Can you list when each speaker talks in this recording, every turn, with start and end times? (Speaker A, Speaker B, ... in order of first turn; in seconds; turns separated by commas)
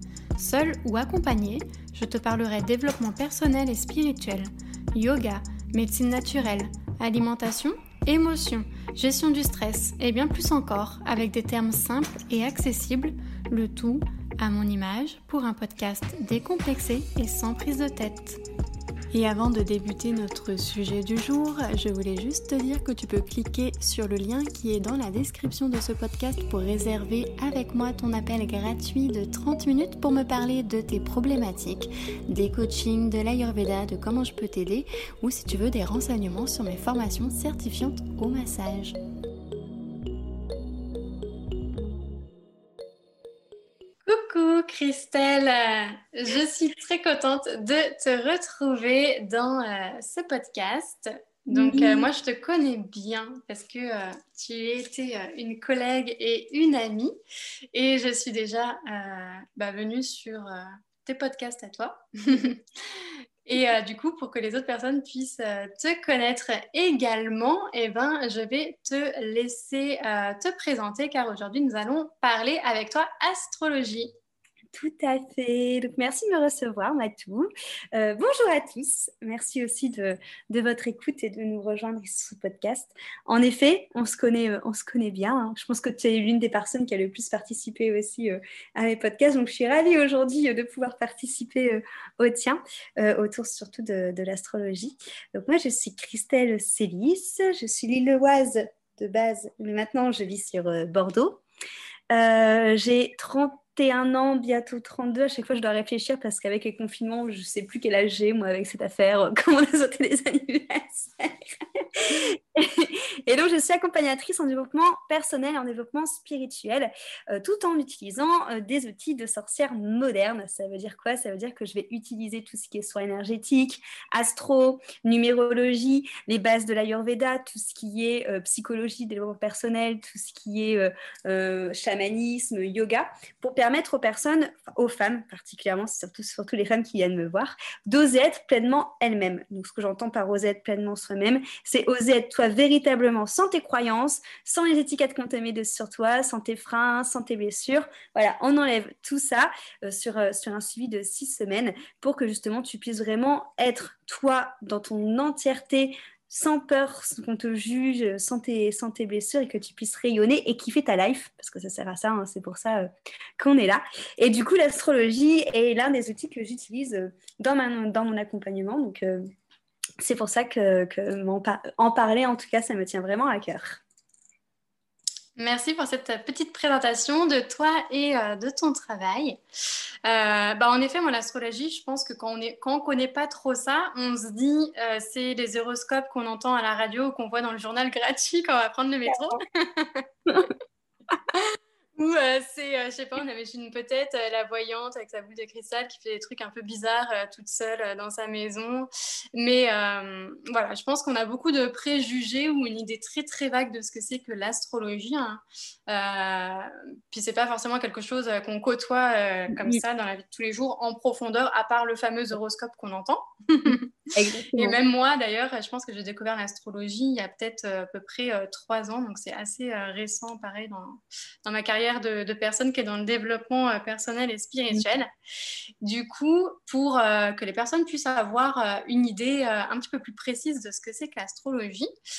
Speaker A: 0.4-18.4, Speaker A: 19.1-39.0, Speaker A: 44.0-57.1, Speaker B: 51.5-52.1, Speaker A: 57.7-74.1, Speaker B: 74.7-101.4, Speaker B: 102.1-169.2, Speaker B: 170.0-173.8, Speaker A: 175.3-179.4, Speaker A: 180.0-190.5, Speaker B: 189.1-189.4, Speaker A: 191.3-213.9, Speaker B: 209.5-209.8, Speaker B: 213.7-214.8, Speaker A: 214.6-225.1, Speaker A: 225.8-231.9